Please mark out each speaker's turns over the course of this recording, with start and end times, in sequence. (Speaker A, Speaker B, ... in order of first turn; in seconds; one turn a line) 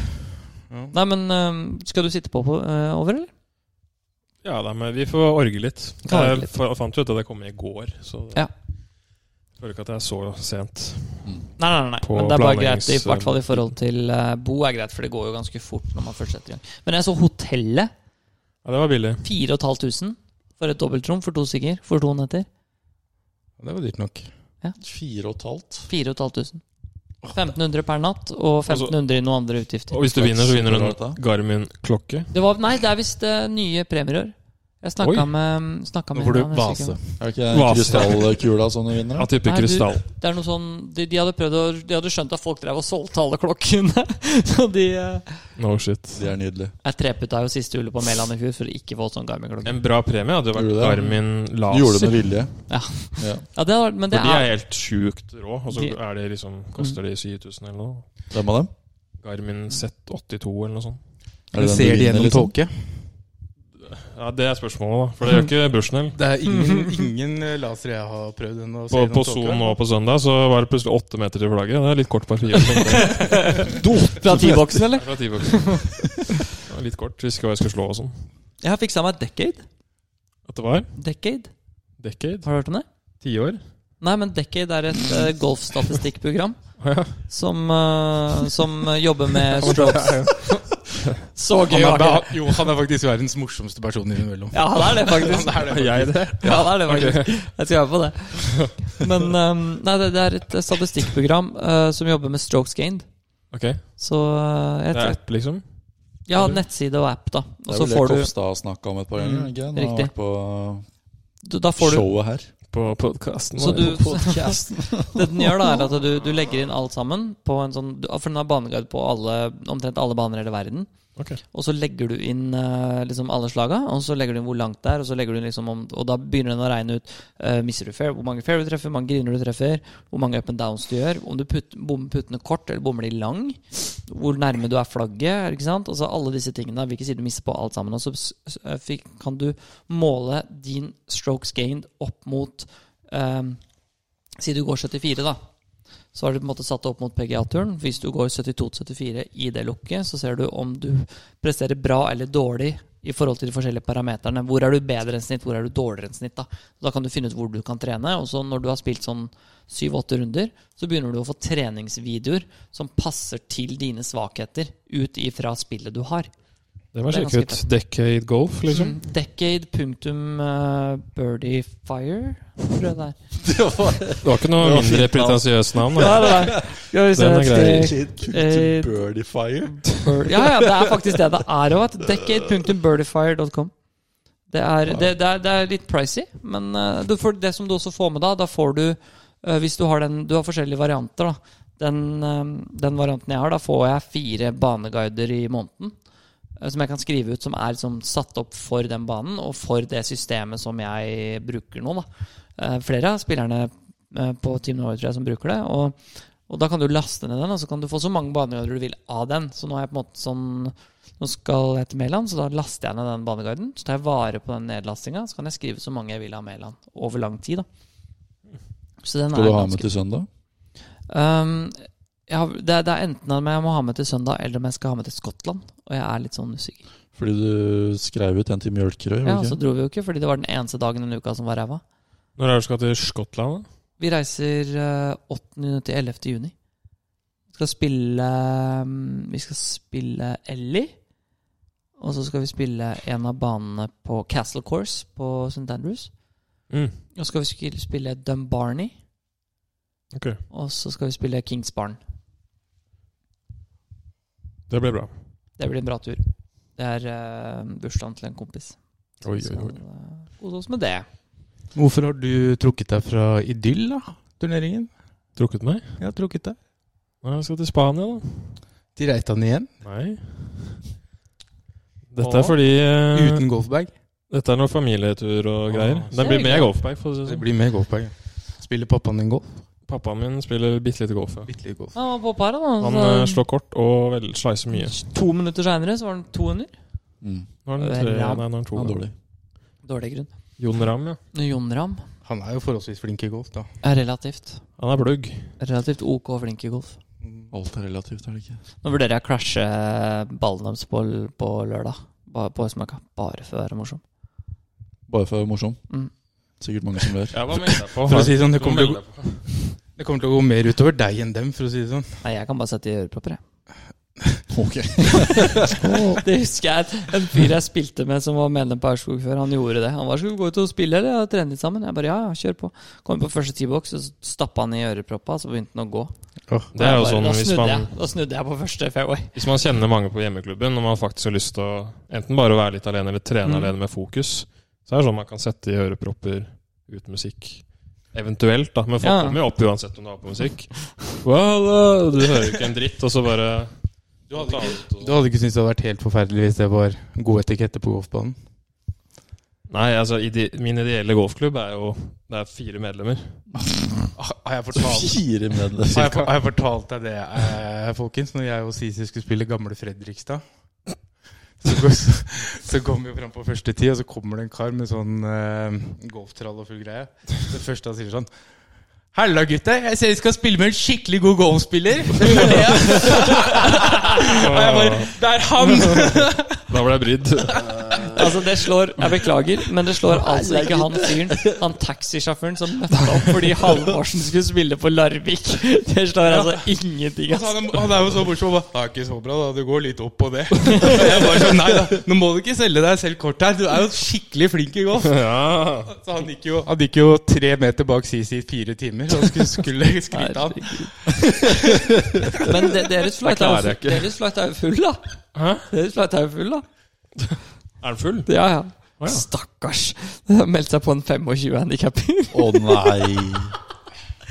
Speaker A: 0.9-3.3
Speaker B: 4.4-8.5
Speaker A: 6.0-6.5
Speaker B: 9.6-11.3
Speaker A: 11.6-17.9
Speaker B: 12.0-13.7
Speaker B: 18.6-19.2
Speaker A: 19.2-22.5
Speaker C: 23.6-24.3
Speaker D: 24.8-25.9
Speaker A: 25.9-26.6
Speaker A: 27.3-30.0
Speaker B: 28.7-28.9
Speaker B: 29.9-32.3
Speaker D: 30.0-31.2
Speaker A: 32.3-37.0
Speaker B: 35.0-35.3
Speaker C: 36.1-37.2
Speaker D: 37.2-39.3
Speaker B: 37.5-38.4
Speaker B: 39.2-40.0
Speaker A: 39.4-45.5
Speaker B: 45.6-46.3
Speaker D: 46.1-46.7
Speaker A: 46.8-49.8
Speaker B: 49.6-52.3
Speaker D: 50.5-51.1
Speaker D: 51.6-53.5
Speaker A: 52.7-54.5
Speaker B: 54.1-58.1
Speaker A: 55.7-56.0
Speaker D: 58.3-58.7
Speaker B: 59.2-61.0
Speaker D: 61.5-62.5
Speaker C: 61.5-62.9
Speaker B: 63.9-66.2
Speaker C: 66.1-69.8
Speaker A: 66.5-67.0
Speaker B: 68.9-73.7
Speaker A: 72.7-76.0
Speaker D: 73.7-74.8
Speaker B: 74.9-78.2
Speaker A: 78.6-79.7
Speaker B: 80.5-80.9
Speaker A: 81.0-81.5
Speaker B: 82.0-82.5
Speaker A: 82.4-82.9
Speaker B: 83.2-83.6
Speaker A: 84.0-86.6
Speaker B: 86.8-87.2
Speaker A: 87.2-90.6
Speaker B: 89.5-91.2
Speaker A: 91.3-92.4
Speaker C: 91.7-96.6
Speaker A: 94.5-95.7
Speaker B: 95.5-97.4
Speaker A: 96.4-103.1
Speaker B: 103.5-103.9
Speaker A: 104.0-105.2
Speaker B: 104.9-105.7
Speaker A: 106.3-108.3
Speaker B: 106.3-106.6
Speaker D: 107.7-110.8
Speaker A: 109.7-110.1
Speaker A: 111.4-112.1
Speaker D: 111.8-112.5
Speaker B: 112.7-114.2
Speaker A: 113.6-120.9
Speaker D: 113.7-115.8
Speaker A: 121.5-143.6
Speaker A: 144.4-145.4
Speaker A: 146.1-166.3
Speaker B: 166.9-169.0
Speaker A: 167.1-167.6
Speaker A: 168.7-173.2
Speaker D: 173.4-176.7
Speaker B: 174.2-178.0
Speaker A: 176.0-179.0
Speaker D: 177.5-181.1
Speaker A: 179.9-183.7
Speaker A: 184.5-196.0
Speaker A: 196.6-217.7
Speaker A: 219.0-219.9
Speaker D: 219.3-220.3
Speaker A: 221.1-226.8
Speaker D: 227.2-229.6
Speaker A: 229.2-231.8
Speaker B: 232.4-233.7
Speaker A: 234.0-236.5
Speaker A: 237.5-240.9
Speaker A: 242.0-246.1
Speaker B: 246.7-247.0
Speaker A: 247.2-248.9
Speaker B: 250.1-250.4
Speaker A: 250.5-252.0
Speaker B: 254.7-255.1
Speaker A: 255.6-261.1
Speaker B: 259.2-259.8
Speaker C: 261.8-264.9
Speaker B: 265.4-266.0
Speaker C: 266.0-266.6
Speaker B: 267.2-268.6
Speaker C: 269.0-269.7
Speaker B: 269.8-270.8
Speaker B: 272.1-273.4
Speaker C: 272.2-272.6
Speaker C: 273.1-273.9
Speaker B: 274.3-277.5
Speaker C: 275.7-276.5
Speaker A: 276.1-276.7
Speaker C: 277.2-279.6
Speaker B: 279.9-281.5
Speaker C: 281.5-281.9
Speaker A: 281.9-283.4
Speaker B: 282.8-285.0
Speaker A: 284.7-286.7
Speaker D: 287.2-287.5
Speaker B: 287.7-289.0
Speaker A: 287.8-288.5
Speaker D: 288.8-289.1
Speaker A: 289.8-290.3
Speaker B: 290.6-291.2
Speaker A: 291.3-292.0
Speaker C: 292.2-293.7
Speaker A: 293.8-294.6
Speaker B: 294.8-295.5
Speaker A: 295.6-297.0
Speaker C: 297.2-297.5
Speaker D: 297.5-298.6
Speaker A: 298.8-304.0
Speaker D: 305.1-305.8
Speaker D: 306.6-307.4
Speaker B: 307.3-309.5
Speaker C: 308.1-309.0
Speaker C: 310.0-312.2
Speaker A: 312.2-313.4
Speaker D: 314.5-315.8
Speaker A: 315.7-326.1
Speaker B: 326.7-327.9
Speaker A: 326.8-329.4
Speaker B: 329.4-343.7
Speaker A: 333.4-333.7
Speaker A: 339.0-339.4
Speaker C: 344.3-348.4
Speaker B: 344.3-345.2
Speaker B: 349.7-353.4
Speaker D: 353.6-354.1
Speaker C: 354.2-355.2
Speaker D: 354.8-356.3
Speaker C: 355.9-360.4
Speaker C: 361.6-368.3
Speaker C: 369.1-376.7
Speaker B: 372.3-378.1
Speaker C: 377.5-378.2
Speaker A: 378.1-387.7
Speaker D: 380.1-381.6
Speaker C: 386.3-386.7
Speaker C: 387.3-402.4
Speaker B: 395.0-395.9
Speaker A: 400.1-401.4
Speaker A: 402.4-405.0
Speaker B: 403.2-404.1
Speaker B: 405.4-405.7
Speaker A: 405.7-406.6
Speaker B: 407.8-408.3
Speaker A: 408.3-413.4
Speaker B: 409.0-409.3
Speaker D: 412.3-413.6